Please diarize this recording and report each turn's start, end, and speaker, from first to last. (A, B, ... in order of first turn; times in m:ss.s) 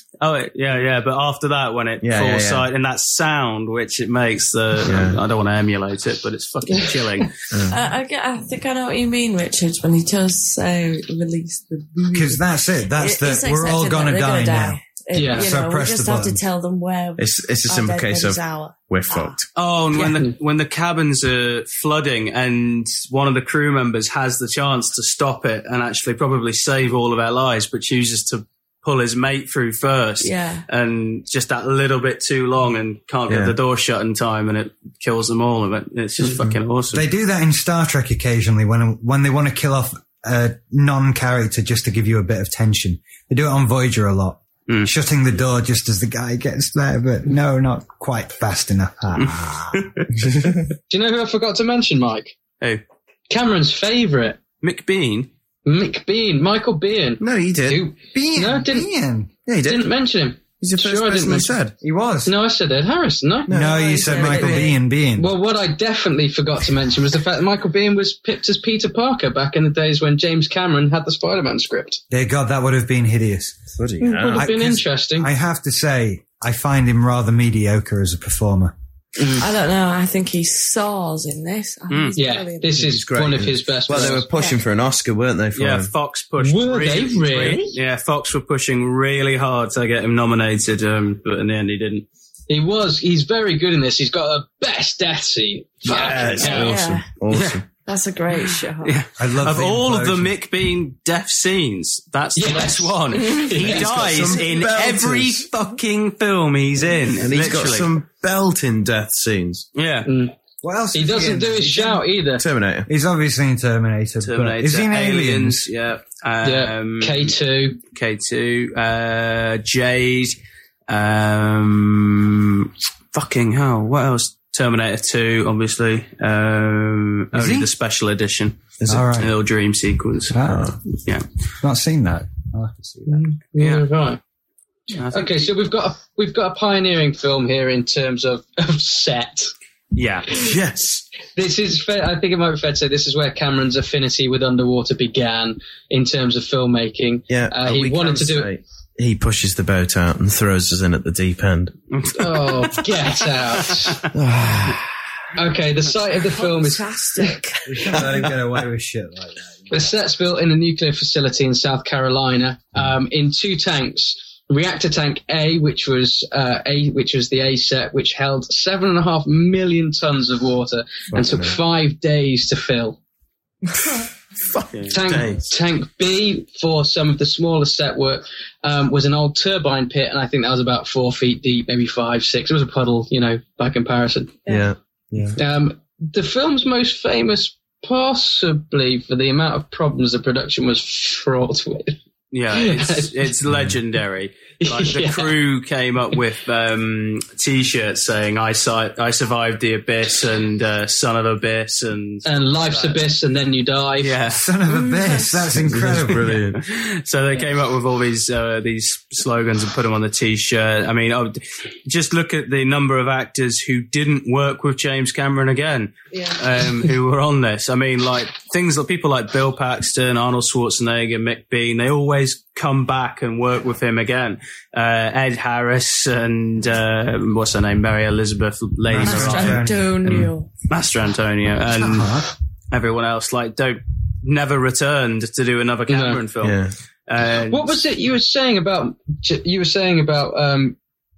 0:00.2-0:07.3 A
0:02.0-0:02.7 B
0:04.9-0:05.2 B
0:07.5-0:07.8 B
0:07.7-0:12.4 C
0:12.1-0:16.4 D
0:13.0-0:19.4 C
0:15.2-0:15.5 E
0:17.2-0:19.5 B
0:19.6-0:37.0 A
0:20.0-0:20.3 E
0:30.2-0:30.6 C
0:33.3-0:33.6 B
0:36.9-0:49.9 D
0:49.2-0:50.1 A
0:50.9-0:52.4 E
0:53.3-0:54.4 E
0:54.6-0:55.3 A
0:55.6-0:58.9 E
0:57.2-0:57.8 B
0:58.0-0:59.5 D
0:59.5-0:59.9 B
0:59.6-1:01.6 E
1:00.6-1:01.8 B
1:01.8-1:02.3 D
1:02.3-1:12.0 E
1:03.5-1:05.3 D
1:03.5-1:03.9 B
1:03.8-1:04.7 C
1:12.1-1:13.7 D
1:13.7-1:14.5 B
1:14.0-1:15.3 E
1:14.4-1:18.7 D
1:19.2-1:19.5 E
1:19.4-1:22.8 C
1:21.9-1:22.2 A
1:22.2-1:24.3 E
1:22.8-1:25.9 B
1:25.6-1:32.1 A
1:26.4-1:27.8 E
1:32.5-1:36.7 E
1:35.9-1:36.7 A
1:35.9-1:37.6 B
1:36.4-1:37.1 C
1:37.3-1:37.6 A
1:37.8-1:39.0 C
1:38.8-1:47.9 A
1:39.2-1:40.3 D
1:42.4-1:44.0 E
1:43.6-1:45.5 B
1:47.2-1:49.7 B
1:49.8-1:50.1 A
1:50.1-1:50.4 E
1:50.6-1:52.0 D
1:50.9-1:52.5 E
1:52.4-1:52.9 B
1:52.9-1:55.6 D
1:54.2-1:57.4 A
1:56.4-1:57.8 E
1:57.9-2:00.4 A
2:00.9-2:10.4 A
2:07.3-2:07.7 D
2:08.8-2:09.1 B
2:08.9-2:09.3 D
2:10.3-2:10.8 D
2:10.5-2:10.8 B
2:10.9-2:11.2 A
2:11.6-2:13.2 D
2:13.1-2:14.2 E
2:13.6-2:13.9 A
2:15.0-2:15.5 A
2:15.1-2:19.5 E
2:19.9-2:20.4 A
2:20.3-2:21.0 B
2:21.4-2:28.5 E
2:27.3-2:31.7 B
2:31.9-2:32.9 A
2:32.2-2:34.1 E
2:33.6-2:34.0 A
2:34.1-2:34.9 B
2:35.4-2:37.4 E
2:36.0-2:38.1 C
2:37.6-2:39.9 D
2:39.7-2:53.0 E
2:51.1-2:51.6 B
2:54.5-2:55.5 B
2:54.7-2:55.2 A
2:54.9-3:04.4 E
3:04.5-3:05.4 B
3:05.4-3:12.0 E
3:12.3-3:23.0 A
3:12.5-3:13.3 E
3:14.6-3:15.3 E
3:22.3-3:24.2 E
3:24.0-3:24.4 A
3:24.3-3:26.4 D
3:24.7-3:25.4 C
3:25.6-3:26.6 B
3:26.3-3:52.1 A
3:48.9-3:50.0 D
3:49.0-3:50.5 C
3:51.6-3:52.3 D
3:52.7-3:57.8 A
3:55.9-3:56.2 E
3:56.4-3:56.7 B
3:57.5-4:00.8 E